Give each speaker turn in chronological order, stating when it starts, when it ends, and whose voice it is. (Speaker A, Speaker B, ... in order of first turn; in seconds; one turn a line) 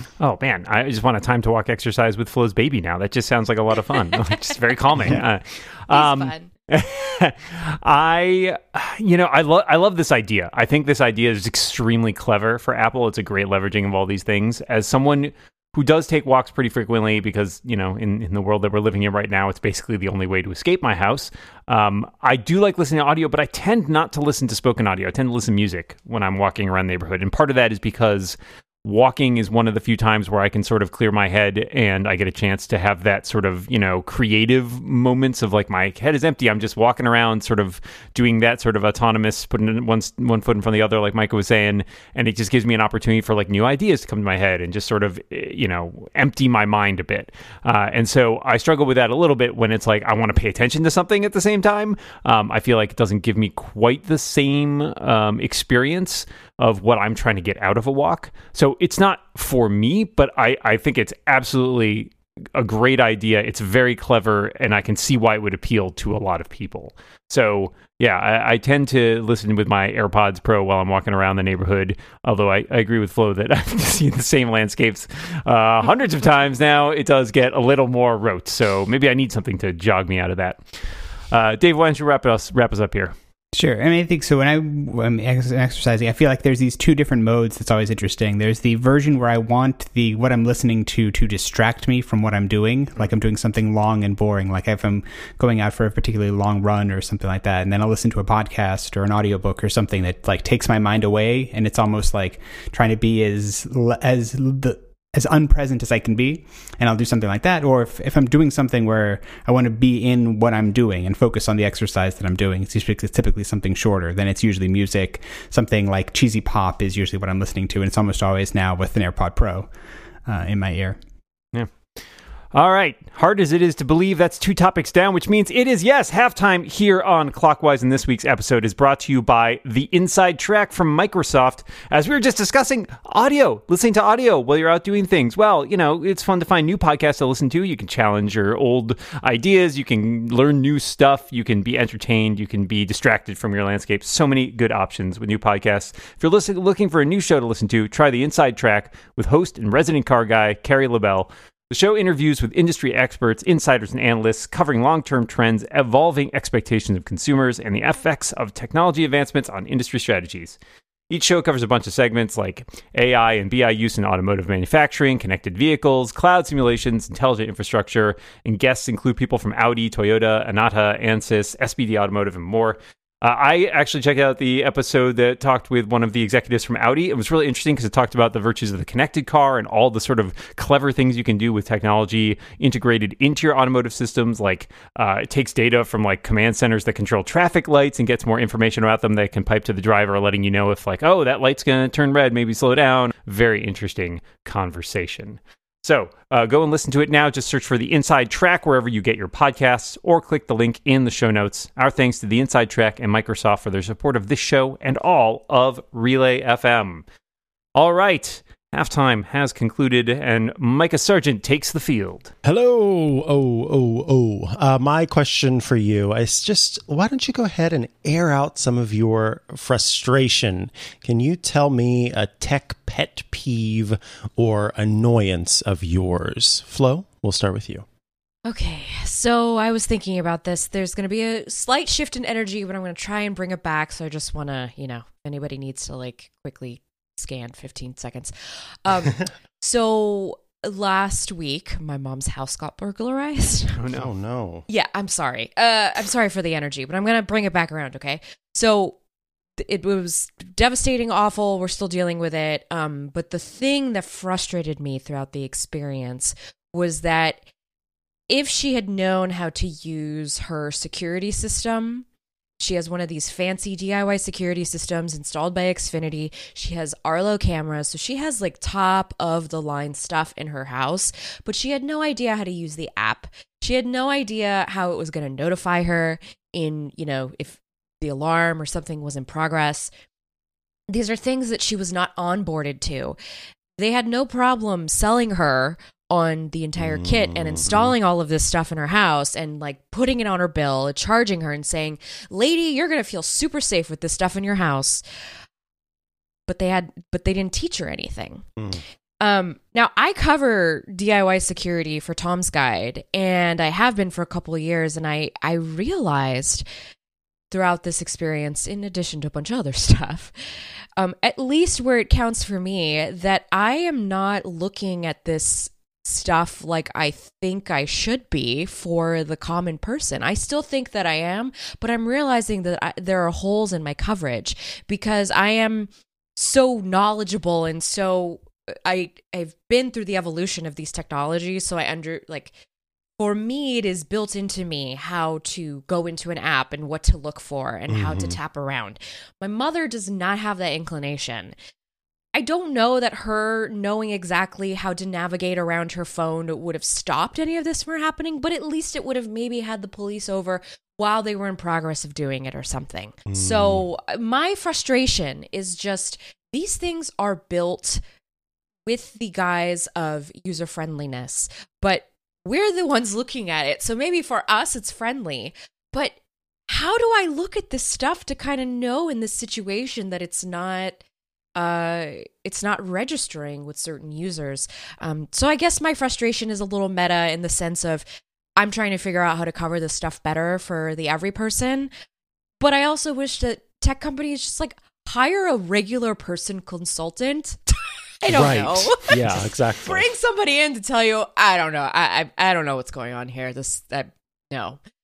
Speaker A: 0.2-80.6
Speaker B: 5.9-6.5
Speaker A: 81.3-83.1
Speaker C: 83.5-119.7
Speaker C: 120.2-121.0
Speaker A: 122.5-160.6
Speaker A: 161.1-207.0
Speaker A: 207.8-212.3
Speaker D: 212.4-227.8
Speaker B: 228.4-243.8
Speaker A: 243.8-244.1
Speaker D: 243.9-244.7
Speaker B: 244.7-248.9
Speaker B: 249.6-257.4
Speaker B: 258.3-262.0
Speaker B: 262.6-279.9
Speaker B: 280.9-283.2
Speaker B: 283.8-295.0
Speaker D: 286.8-287.9
Speaker B: 296.5-298.5
Speaker B: 299.2-306.6
Speaker B: 307.5-332.5
Speaker B: 333.2-341.5
Speaker D: 337.9-338.4
Speaker B: 342.3-358.0
Speaker D: 353.3-353.8
Speaker B: 358.9-366.1
Speaker B: 366.7-371.0
Speaker B: 371.5-378.0
Speaker B: 378.6-381.9
Speaker B: 382.6-394.8
Speaker D: 388.3-390.1